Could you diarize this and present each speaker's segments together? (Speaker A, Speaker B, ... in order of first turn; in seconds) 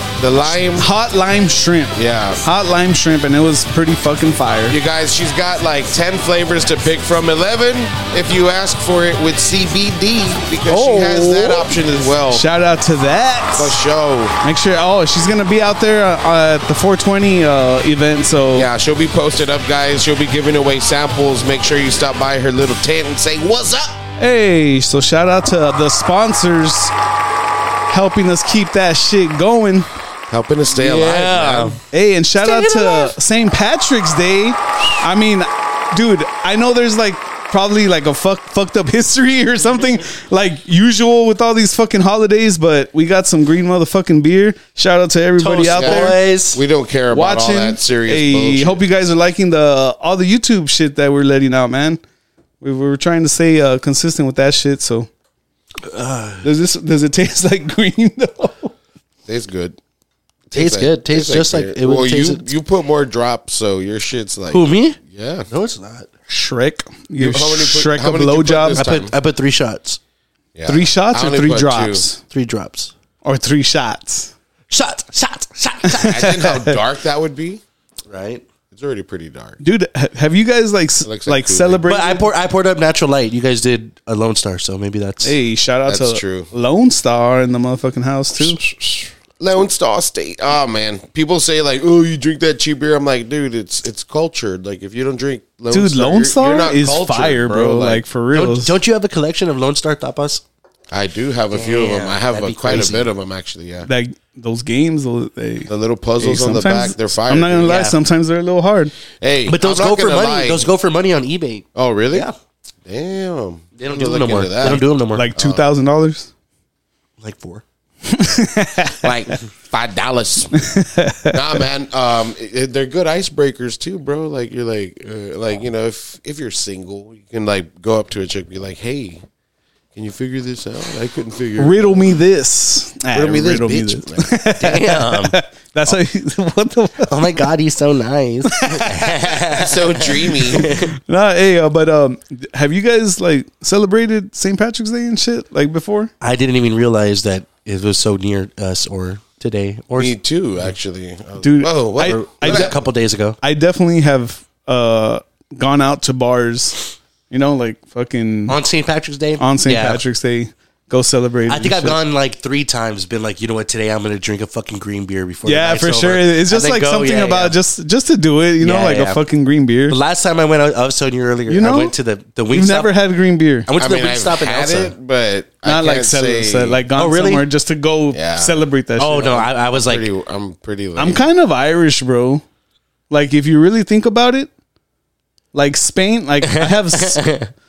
Speaker A: 0.2-0.9, 1.9-2.4, 4.7-12.4, 13.6-14.3, 18.5-24.0, 30.3-31.8, 45.7-48.8, 59.3-59.8, 60.5-65.5, 67.2-69.1, 70.5-72.0, 76.0-77.6, 78.7-79.6, 81.0-81.8, 85.9-86.5, 88.4-98.0, 100.9-103.9, 105.7-107.8, 109.2-110.7, 111.7-112.3, 112.8-115.6, 119.0-120.5, 121.3-129.2, 129.9-132.1, 133.1-134.3, 139.5-140.6, 150.0-152.7, 173.8-176.8, 178.1-178.6, 179.7-181.2
Speaker B: 0.6-4.8, 10.7-11.7, 12.3-13.8, 14.4-18.7, 24.2-26.9, 27.9-29.9, 31.9-46.2, 47.1-52.0, 52.6-55.1, 56.4-58.7, 66.3-68.8, 70.7-72.2, 73.2-74.3, 75.8-76.8, 79.6-82.3, 85.2-88.6, 95.7-98.7, 103.9-108.9, 115.1-116.3, 118.1-119.0, 120.6-121.4, 131.6-137.4, 138.5-139.1, 140.6-146.1, 151.4-152.7, 153.4-158.6, 159.4-162.0, 165.4-170.0, 171.5-171.9, 172.5-173.7, 175.6-179.4, 181.0-182.4, 183.1-184.5, 185.5-187.2
Speaker C: 30.8-31.8, 32.4-33.1, 45.4-46.6, 55.9-56.4, 60.5-62.5, 64.5-65.0, 65.5-66.1, 68.7-70.0, 72.3-72.9, 74.7-76.2, 78.1-78.4, 81.9-85.3, 98.3-100.4, 101.5-103.1, 107.6-108.0, 109.5-112.3, 113.8-115.3, 117.2-117.6, 134.6-135.3, 137.1-140.9, 146.2-150.1, 152.0-153.4, 158.5-160.0, 161.5-167.6, 168.6-169.2, 169.9-172.9, 173.7-174.9, 176.9-177.4, 179.0-180.1, 186.4-187.5